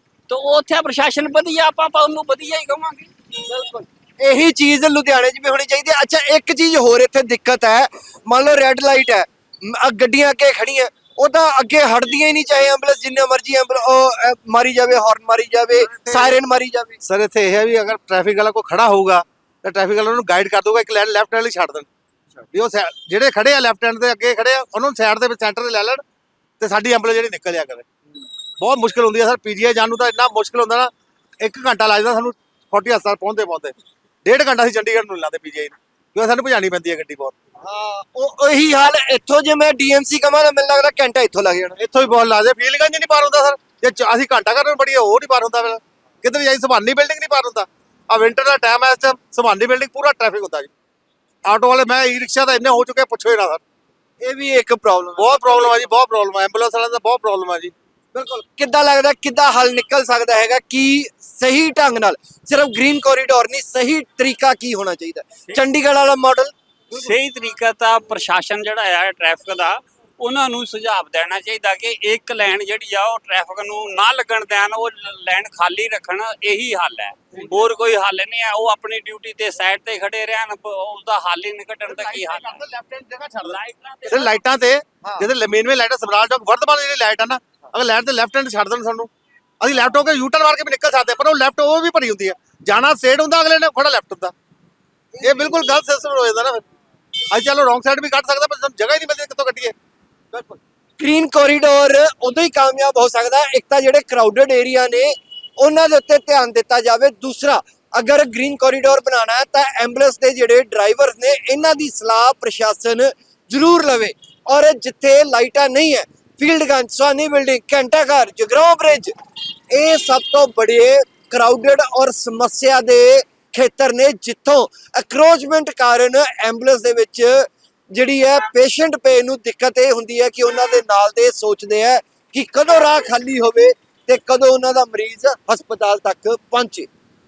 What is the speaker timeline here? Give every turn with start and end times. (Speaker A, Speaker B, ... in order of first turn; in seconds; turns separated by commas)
Speaker A: 0.3-3.1, Speaker B: 3.4-17.0, Speaker C: 15.9-16.3, Speaker C: 17.0-21.9, Speaker C: 22.5-26.0, Speaker C: 26.6-27.9, Speaker C: 28.6-37.3, Speaker B: 37.6-41.8, Speaker C: 41.8-50.7, Speaker C: 51.5-53.6, Speaker B: 54.2-55.9, Speaker C: 55.2-57.7, Speaker B: 58.1-67.1, Speaker A: 66.9-82.6, Speaker C: 81.8-94.3, Speaker A: 83.4-84.4, Speaker B: 85.0-85.3, Speaker B: 95.1-95.7, Speaker C: 95.2-96.6, Speaker C: 97.3-99.7, Speaker B: 101.0-119.1, Speaker B: 119.7-136.9